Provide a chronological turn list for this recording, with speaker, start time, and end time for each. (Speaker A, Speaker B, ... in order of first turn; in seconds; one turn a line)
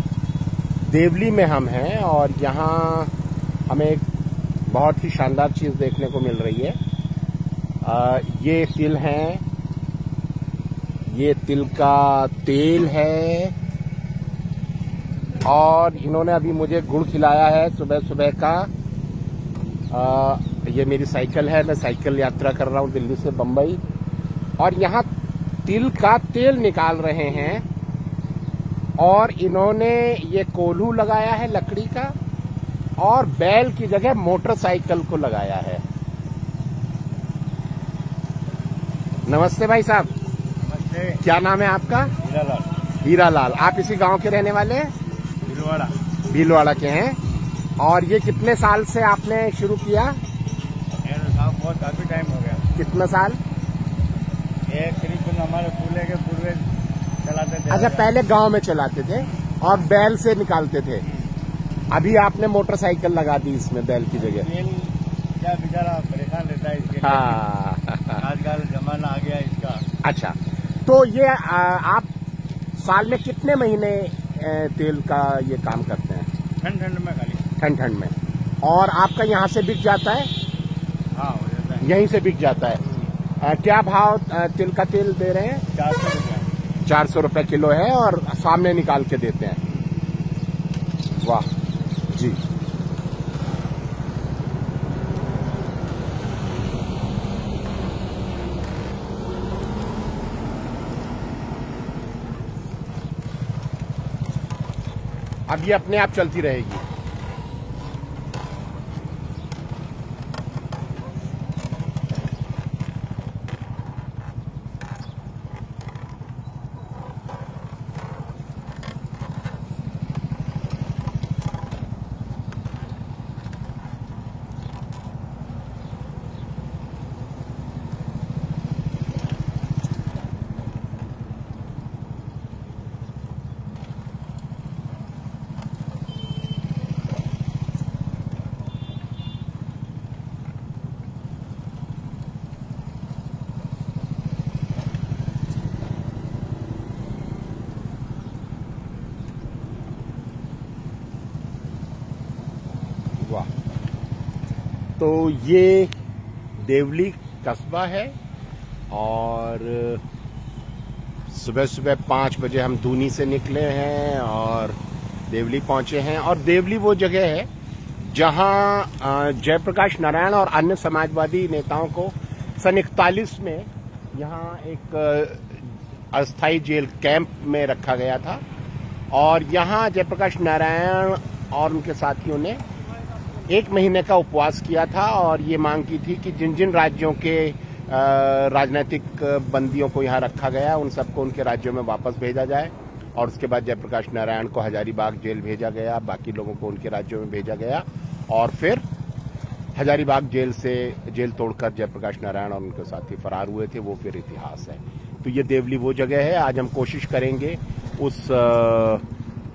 Speaker A: 0.8-3.1
Speaker A: 3.7-4.0
Speaker A: 4.7-6.8
Speaker A: 7.8-9.4
Speaker A: 11.1-13.5
Speaker A: 15.4-18.7
Speaker A: 19.9-23.8
Speaker A: 24.6-25.1
Speaker A: 25.6-27.6
Speaker A: 29.0-32.1
Speaker A: 33.0-35.8
Speaker A: 39.2-40.1
Speaker B: 40.6-41.2
Speaker A: 41.2-42.1
Speaker B: 42.2-42.7
Speaker A: 43.0-44.9
Speaker B: 45.4-45.9
Speaker A: 46.3-47.2
Speaker A: 47.8-50.2
Speaker B: 51.0-52.6
Speaker A: 52.7-53.4
Speaker B: 54.7-56.7
Speaker B: 57.2-58.1
Speaker A: 57.7-61.0
Speaker A: 61.9-64.5
Speaker B: 64.2-67.4
Speaker A: 67.0-68.2
Speaker B: 68.1-69.8
Speaker A: 70.0-72.1
Speaker A: 72.8-76.3
Speaker B: 76.6-77.5
Speaker A: 77.6-80.3
Speaker B: 81.1-81.9
Speaker A: 81.8-85.6
Speaker B: 85.7-86.5
Speaker A: 86.8-89.6
Speaker A: 91.2-91.5
Speaker A: 92.1-92.4
Speaker A: 105.5-106.8
Speaker A: 153.2-153.5
Speaker A: 155.0-155.9
Speaker A: 156.6-158.1
Speaker A: 158.9-160.0
Speaker A: 161.3-167.5
Speaker A: 168.0-178.4
Speaker A: 179.1-182.6
Speaker A: 183.5-198.8
Speaker A: 199.8-209.0